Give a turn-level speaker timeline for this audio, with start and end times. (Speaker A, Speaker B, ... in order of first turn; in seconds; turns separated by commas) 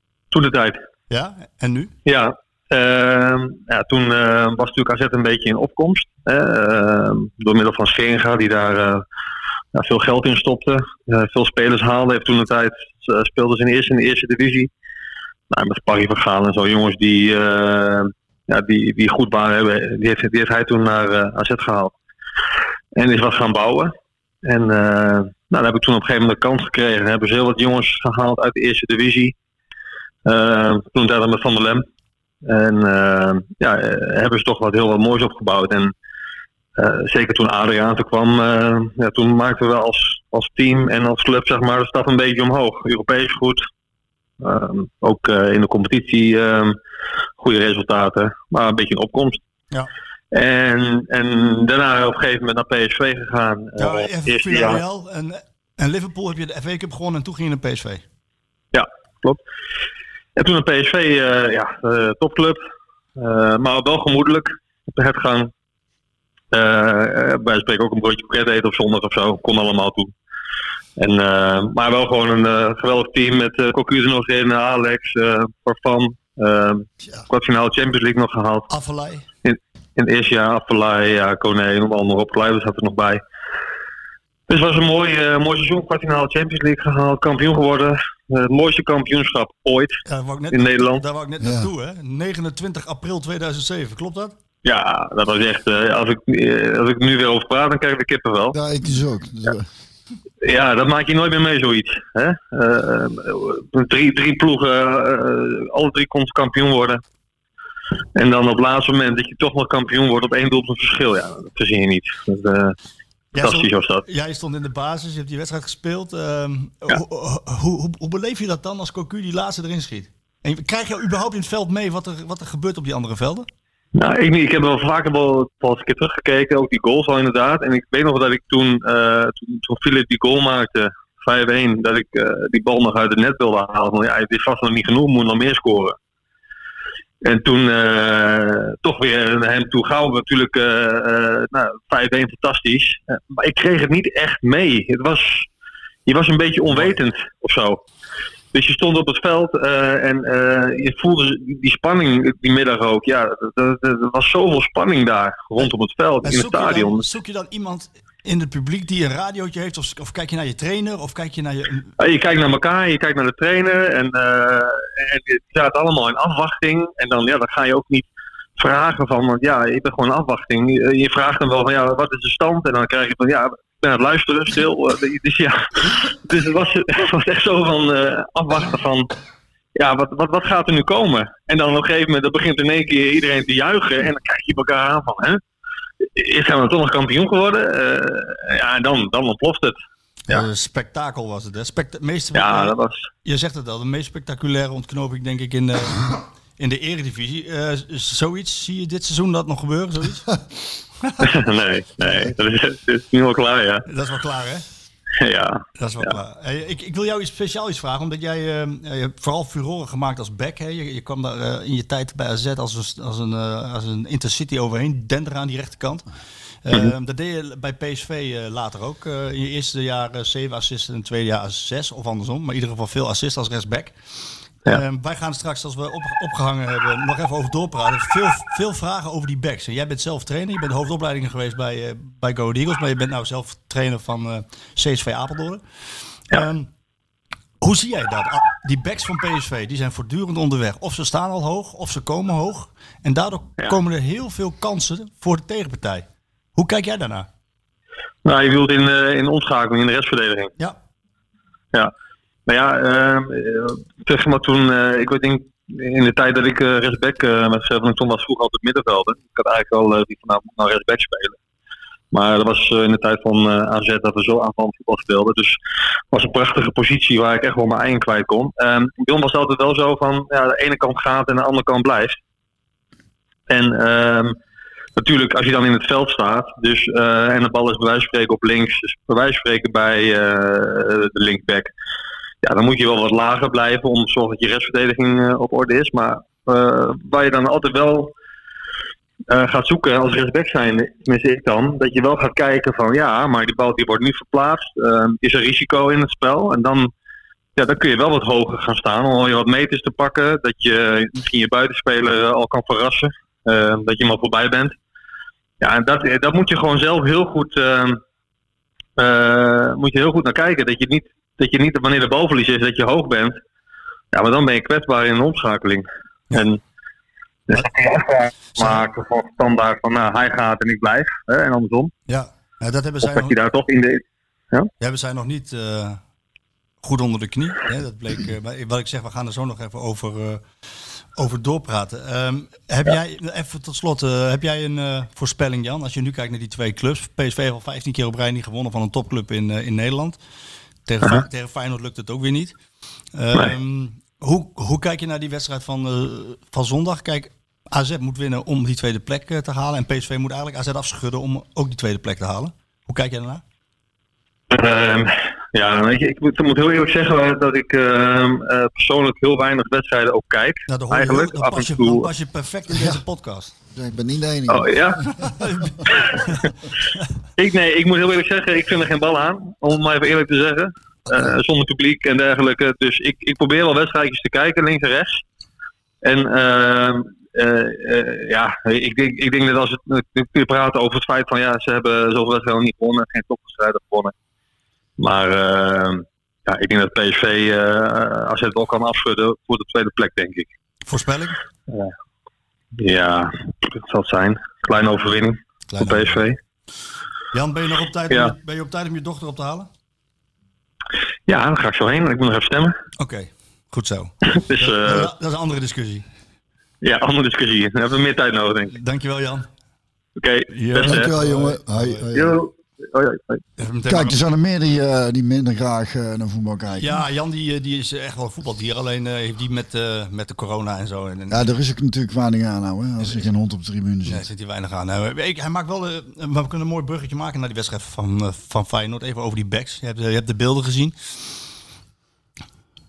Speaker A: 0.3-0.8, Speaker B: 1.1-1.9, Speaker A: 2.1-9.0, Speaker A: 9.7-14.7, Speaker A: 15.5-21.9, Speaker A: 23.0-23.9, Speaker A: 24.4-29.4, Speaker A: 30.3-31.9, Speaker A: 32.5-35.9, Speaker A: 36.8-43.6, Speaker A: 44.4-46.8, Speaker A: 47.4-49.4, Speaker A: 50.3-54.8, Speaker B: 53.8-58.0, Speaker A: 58.7-59.4, Speaker A: 60.4-62.6, Speaker A: 63.2-65.5, Speaker A: 66.5-70.1, Speaker A: 71.0-78.7, Speaker B: 78.7-79.2, Speaker A: 79.5-83.2, Speaker A: 84.5-90.0, Speaker B: 90.1-94.3, Speaker A: 90.5-91.0, Speaker C: 91.4-91.7, Speaker A: 94.7-98.5, Speaker C: 98.5-99.7, Speaker A: 100.4-107.0, Speaker A: 108.2-112.8, Speaker B: 113.3-123.5, Speaker A: 113.4-114.0, Speaker A: 124.0-136.0, Speaker A: 137.2-145.5, Speaker A: 146.1-147.8, Speaker B: 146.7-147.0, Speaker A: 148.5-157.0, Speaker B: 156.2-161.9, Speaker A: 162.0-168.1, Speaker A: 168.6-179.1, Speaker A: 179.8-185.4, Speaker A: 186.2-189.8, Speaker B: 190.3-200.3, Speaker A: 192.3-193.1, Speaker A: 201.2-203.8, Speaker B: 203.9-204.6, Speaker A: 205.2-205.6, Speaker B: 205.8-216.0, Speaker B: 216.6-223.9, Speaker B: 224.7-235.6, Speaker B: 236.3-236.7, Speaker B: 237.6-247.3, Speaker A: 248.2-250.5, Speaker A: 252.5-261.4, Speaker A: 262.1-265.6, Speaker A: 266.1-272.2, Speaker A: 273.5-274.4, Speaker A: 275.0-281.7, Speaker A: 282.4-288.1, Speaker A: 289.3-296.9, Speaker A: 297.6-304.8, Speaker A: 305.6-308.0, Speaker A: 309.0-313.4, Speaker A: 314.1-316.6, Speaker A: 317.5-321.9, Speaker B: 322.1-323.4, Speaker A: 323.0-324.7, Speaker B: 324.8-326.0, Speaker B: 326.8-330.4, Speaker B: 331.2-340.2, Speaker B: 340.9-342.5, Speaker B: 343.1-353.4, Speaker A: 354.5-362.1, Speaker B: 360.7-363.5, Speaker C: 362.7-363.0, Speaker C: 363.7-365.2, Speaker A: 364.5-365.0, Speaker B: 365.2-366.5, Speaker A: 365.9-366.5, Speaker A: 367.4-375.2, Speaker A: 376.0-384.1, Speaker A: 385.0-390.5, Speaker B: 390.9-391.4, Speaker A: 392.8-396.4, Speaker B: 395.7-396.2, Speaker B: 397.3-399.7, Speaker A: 401.3-402.7, Speaker B: 403.0-406.1, Speaker A: 404.3-405.1, Speaker A: 406.8-408.8, Speaker B: 408.7-409.5, Speaker A: 410.2-411.1, Speaker B: 410.5-412.1, Speaker C: 410.8-412.4, Speaker A: 412.1-413.4, Speaker B: 413.6-414.2, Speaker C: 413.9-417.0, Speaker B: 416.8-421.4, Speaker C: 421.3-424.3, Speaker B: 424.1-431.4